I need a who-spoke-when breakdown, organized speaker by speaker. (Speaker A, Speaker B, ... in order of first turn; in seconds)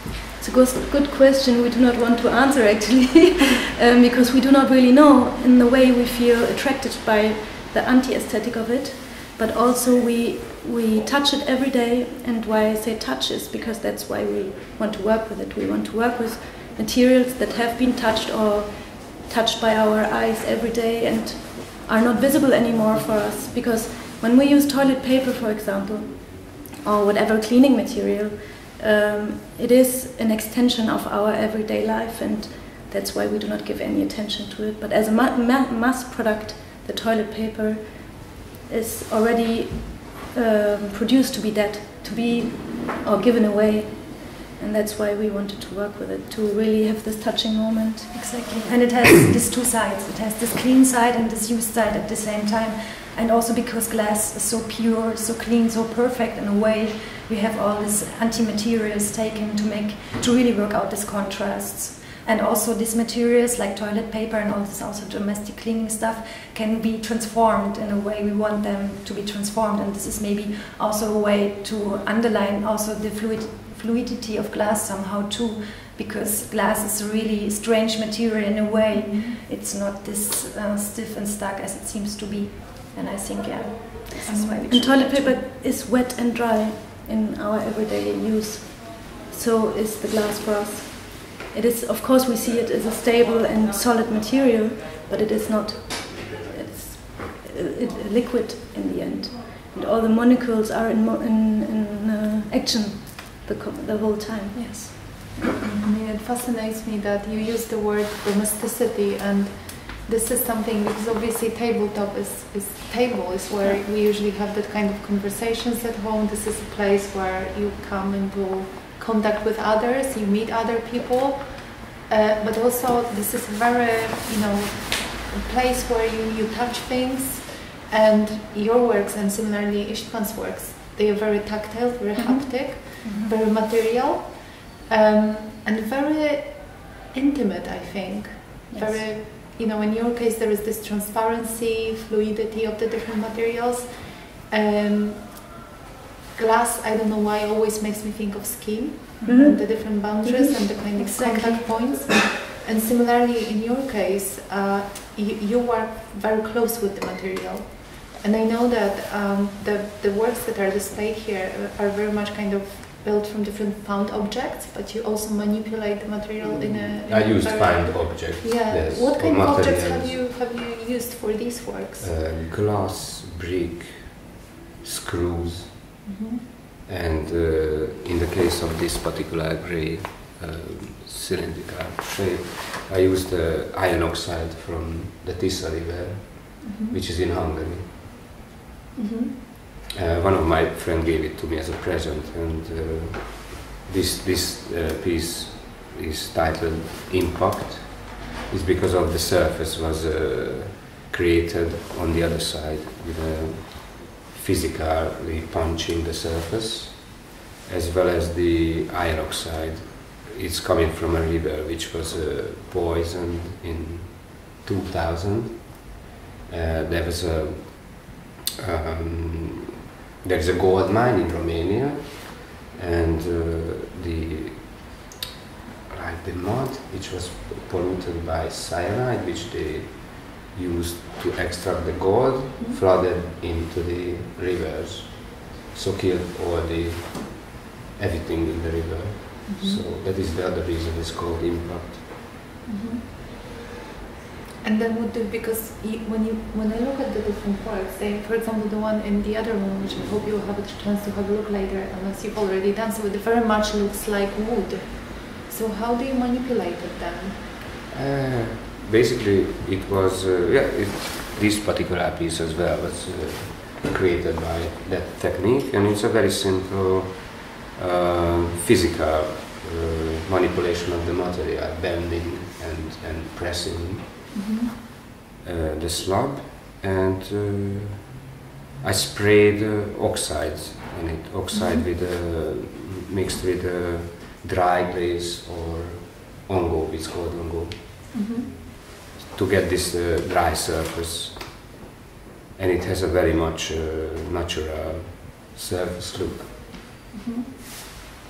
Speaker A: 0.4-48.2, 84.7-105.8, 149.2-149.6
Speaker B: 48.1-85.4, 104.5-105.3, 132.2-133.3, 138.7-139.1, 149.2-152.1
Speaker C: 78.9-79.4, 84.2-84.7, 105.8-145.6, 146.4-172.1, 176.1-176.4, 186.6-187.0, 189.0-189.3, 239.5-239.8, 242.7-243.0, 244.6-257.6, 274.3-274.7, 281.5-281.9, 288.1-288.5, 297.1-298.1
Speaker D: 166.6-170.2, 172.0-175.8, 176.9-187.9, 189.9-219.7, 220.2-224.9, 225.9-242.2, 257.9-274.3, 275.4-278.1, 278.8-287.8, 289.3-291.6, 292.6-296.7